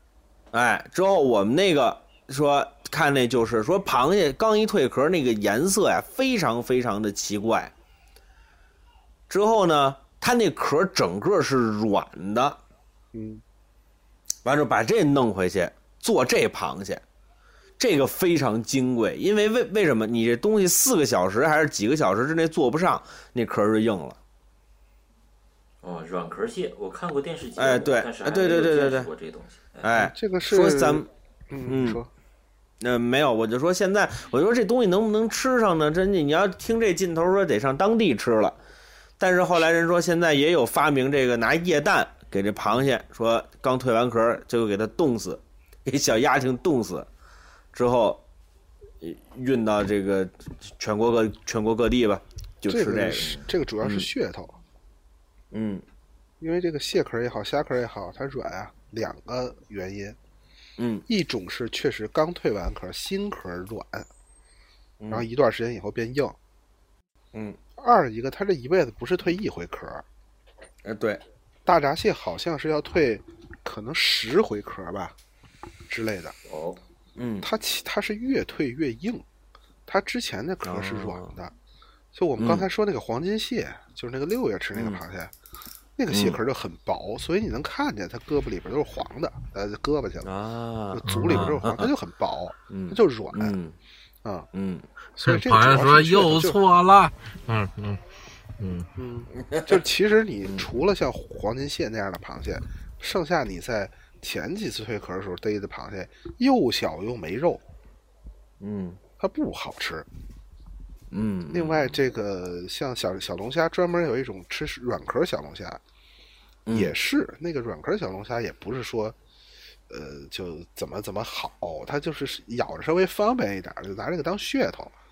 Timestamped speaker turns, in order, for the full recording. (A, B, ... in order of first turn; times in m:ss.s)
0:00.5-0:07.7 A
0:09.3-0:12.6 A
0:13.1-0:13.4 B
0:14.4-0:17.0 A
0:17.8-0:24.2 A
0:25.8-0:29.9 C
0:27.6-0:29.1 A
0:29.8-0:31.1 A
0:29.9-0:32.1 B
0:31.6-0:32.0 A
0:32.8-0:38.6 A
0:39.2-0:47.1 A
0:47.7-0:48.2 A
0:49.0-0:54.1 A
0:52.7-0:54.6 B
0:55.5-0:55.8 A
0:56.4-1:00.2 B
1:00.8-1:01.0 A
1:01.1-1:04.1 B
1:05.0-1:05.2 A
1:05.1-1:06.4 B
1:07.3-1:07.6 A
1:07.8-1:10.0 B
1:10.8-1:11.2 A
1:11.6-1:15.2 B
1:15.9-1:16.4 B
1:16.5-1:16.8 C
1:17.2-1:17.5 A
1:17.4-1:19.2 B
1:19.9-1:21.5 B
1:20.6-1:21.3 A
1:22.1-1:25.3 B
1:22.4-1:22.7 A
1:24.7-1:25.0 A
1:26.0-1:30.3 B
1:26.1-1:26.4 A
1:30.2-1:31.9 A
1:30.9-1:33.6 B
1:31.0-1:31.6 D
1:32.7-1:33.7 A
1:34.5-1:34.8 A
1:35.1-1:36.6 B
1:35.2-1:38.0 D
1:38.6-1:38.9 D
1:39.0-1:47.6 B
1:39.4-1:39.8 A
1:48.6-1:49.0 A
1:49.2-1:50.1 B
1:51.1-1:51.9 A
1:51.5-1:55.8 B
1:56.7-1:56.9 A
1:56.7-1:59.2 B
1:59.9-2:04.9 B